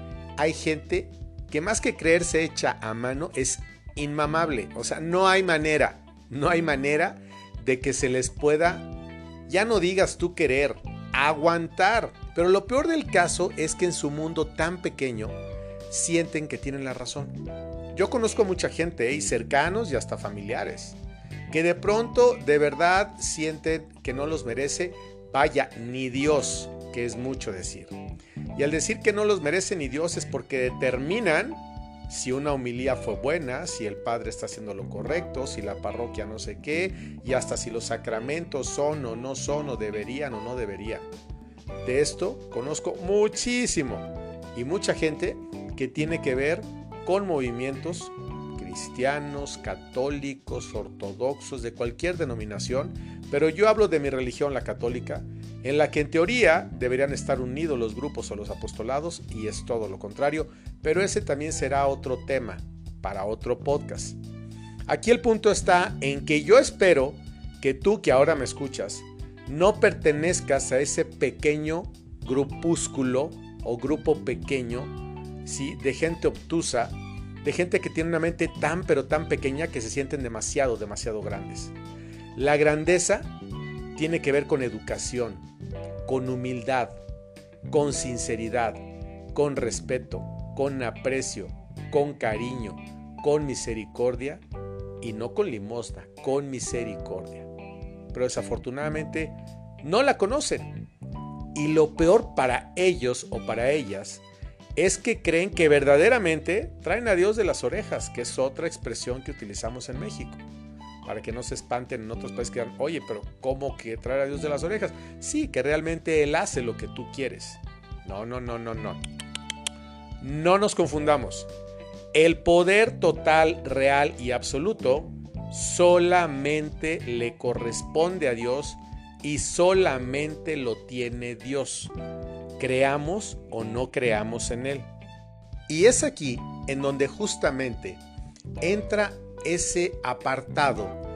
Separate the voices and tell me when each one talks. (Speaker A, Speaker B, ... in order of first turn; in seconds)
Speaker A: 0.4-8.9, 9.5-15.4, 15.9-17.4, 17.9-21.0, 21.5-28.0, 28.5-41.0, 41.8-64.2, 64.9-74.9, 75.4-81.7, 82.3-83.3, 83.9-85.4, 86.0-87.0, 87.7-88.8, 89.3-94.4, 95.0-97.5, 98.1-100.7, 101.5-104.2, 104.8-110.4, 111.0-119.0, 120.2-121.5, 122.1-131.9, 132.6-134.9, 135.7-138.0, 138.6-141.0